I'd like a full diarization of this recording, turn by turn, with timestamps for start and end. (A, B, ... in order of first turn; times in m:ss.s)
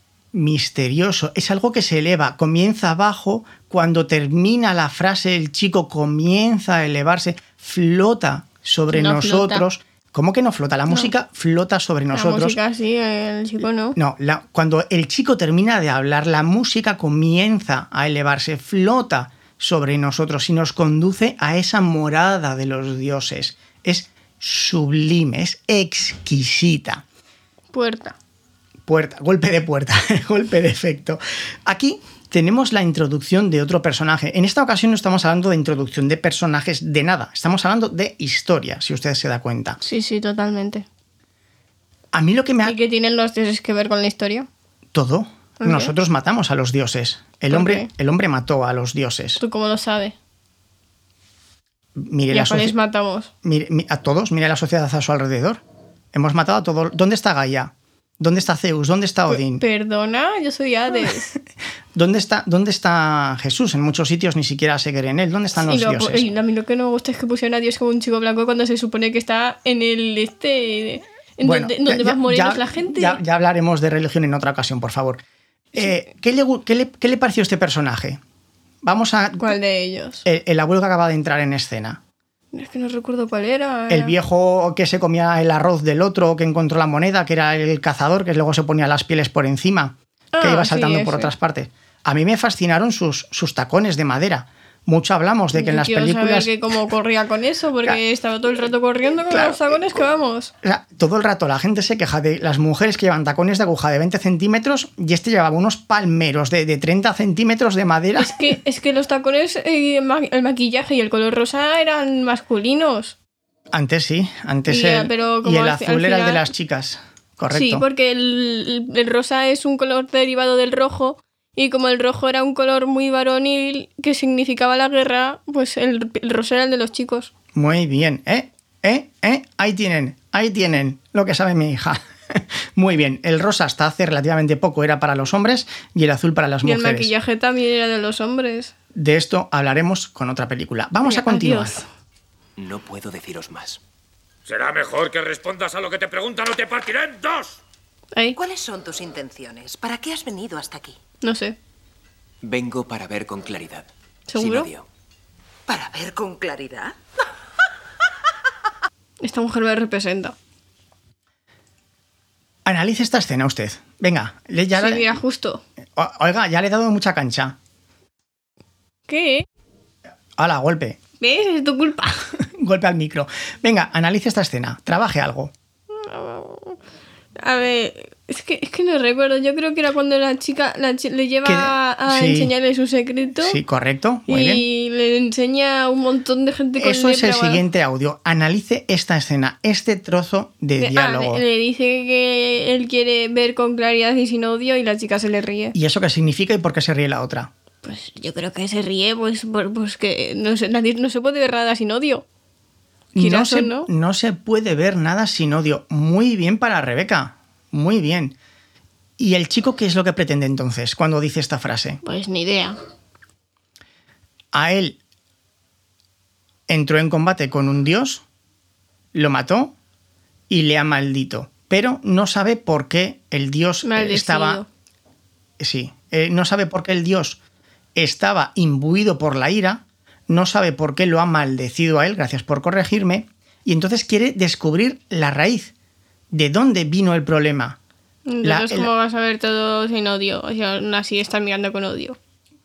0:00.3-0:12.6 A
0:08.9-0:09.6 B
0:12.1-0:14.0 B
0:13.9-0:27.0 A
0:27.7-0:28.2 B
0:28.8-0:39.8 A
0:39.8-0:40.8 B
0:42.1-0:42.8 A
0:42.6-0:44.5 B
0:44.9-0:49.4 A
0:45.6-0:45.9 B
0:47.5-0:47.9 B
0:49.4-0:50.2 B
0:52.0-0:52.7 A
0:52.3-0:53.3 B
0:53.4-0:55.6 A
0:56.1-0:59.6 A
0:59.3-1:01.3 B
1:01.9-1:06.3 A
1:05.6-1:13.2 B
1:11.4-1:15.2 A
1:15.7-1:18.2 A
1:18.8-1:19.5 A
1:19.4-1:20.2 B
1:20.2-1:22.0 A
1:22.5-1:24.1 B
1:23.9-1:36.5 A
1:30.3-1:31.3 B
1:35.5-1:40.5 B
1:39.3-1:40.0 A
1:40.6-1:48.6 A
1:48.2-1:53.2 B
1:53.7-1:57.8 A
1:54.7-1:56.4 B
1:57.5-2:07.3 B
2:07.5-2:17.1 A
2:16.6-2:18.7 B
2:18.9-2:21.8 A
2:21.0-2:21.9 B
2:22.6-2:23.8 C
2:24.4-2:27.6 D
2:28.3-2:31.0 E
2:31.2-2:31.6 B
2:32.4-2:34.8 C
2:34.3-2:34.7 B
2:35.7-2:36.9 E
2:39.2-2:40.4 B
2:42.6-2:45.1 A
2:44.7-2:45.6 B
2:46.0-2:47.6 A
2:49.1-2:49.4 B
2:50.4-2:51.0 A
2:51.2-2:52.3 B
2:52.5-2:55.5 A
2:55.9-2:56.8 B
2:57.4-3:03.6 B
3:01.4-3:02.5 A
3:03.4-3:04.6 A
3:04.3-3:07.6 B
3:06.8-3:11.4 A
3:10.8-3:15.7 B
3:15.7-3:17.5 A
3:17.8-3:22.2 B
3:23.1-3:28.4 A
3:23.2-3:23.9 B
3:29.2-3:32.0 A
3:32.0-3:32.8 B
3:34.5-3:35.0 A
3:36.7-3:38.2 A
3:39.1-3:39.7 A
3:40.5-3:44.6 A
3:43.8-3:44.7 B
3:45.6-3:47.4 A
3:47.9-3:55.7 A
3:56.3-3:57.8 A
3:58.3-4:02.2 B
3:58.4-3:58.9 A